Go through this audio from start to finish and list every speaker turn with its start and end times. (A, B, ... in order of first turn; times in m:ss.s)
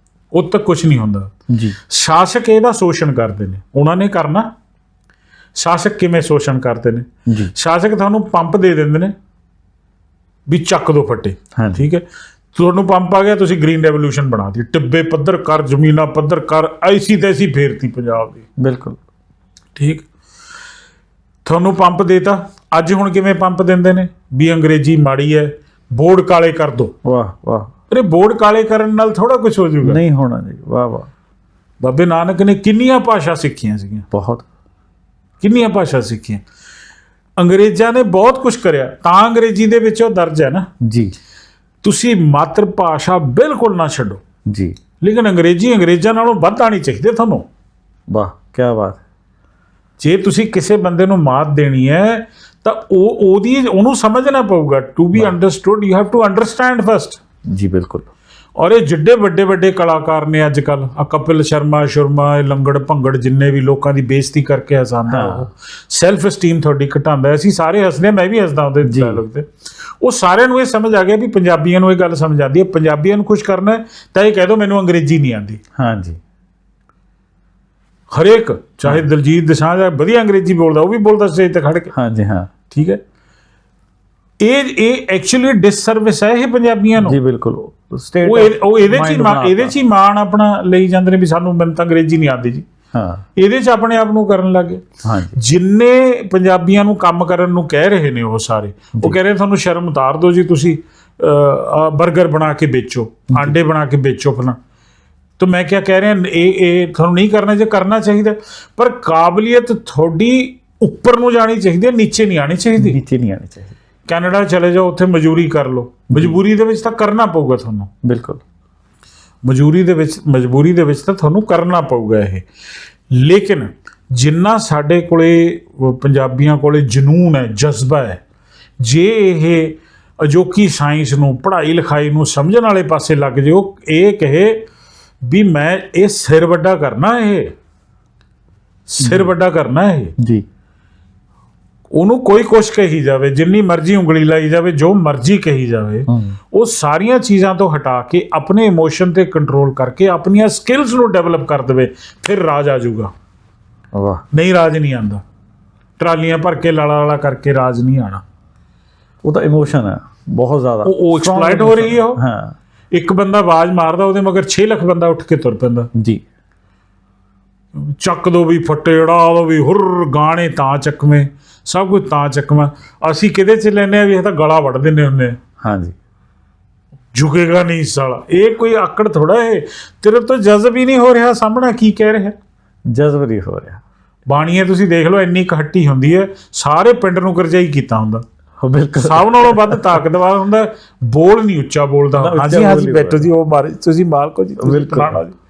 0:00.3-0:01.3 A
0:01.5-0:01.8 B
0:01.9-0:04.5 A
0:05.6-0:09.1 A
0:07.3-0:07.5 B
0:10.5-0:18.4 A
0:11.6-0:11.8 B
0:18.6-0:19.0 B
0:19.7-0:20.0 A
0:21.4-0:26.9 A
0:27.0-0:27.7 B
0:27.9-0:30.0 A
0:29.8-0:31.1 B
0:31.8-0:34.0 A
0:34.1-0:34.4 B
0:35.4-0:36.4 A
0:37.4-0:40.7 A
0:40.8-0:41.2 B
0:41.8-0:44.2 A
0:44.5-0:44.8 B
0:45.0-0:47.4 A
0:48.1-0:49.0 B
0:50.0-0:57.2 A
0:57.5-0:58.1 B
0:58.6-1:15.6 A
1:05.1-1:05.5 B
1:08.8-1:09.2 B
1:15.8-1:16.2 B
1:18.1-1:21.9 A
1:21.9-1:22.5 B
1:22.7-1:23.0 A
1:24.4-1:27.2 A
1:27.0-1:29.7 B
1:28.2-1:32.7 A
1:32.9-1:33.2 B
1:33.4-1:44.6 A
1:35.0-1:35.4 B
1:45.4-1:53.0 A
1:52.8-1:53.7 B
1:54.1-1:57.9 A
1:56.1-1:56.4 B
1:58.0-1:58.4 B
1:59.4-2:02.4 A
2:03.1-2:08.2 A
2:08.8-2:14.6 A
2:15.2-2:17.5 A
2:18.9-2:20.1 A
2:19.0-2:19.3 B
2:20.2-2:20.4 B
2:21.9-2:33.1 A
2:26.1-2:26.4 B
2:33.9-2:34.2 B
2:34.3-2:35.2 A
2:36.0-2:38.2 A
2:39.2-2:42.5 B
2:40.8-2:42.2 A
2:42.9-2:45.9 A
2:45.9-2:46.2 B
2:47.7-2:55.4 A
2:55.6-2:55.9 B
2:57.1-3:02.3 A
3:02.9-3:03.8 B
3:04.3-3:08.2 A
3:08.6-3:10.0 B
3:09.0-3:15.4 A
3:12.2-3:13.3 B
3:14.6-3:15.2 B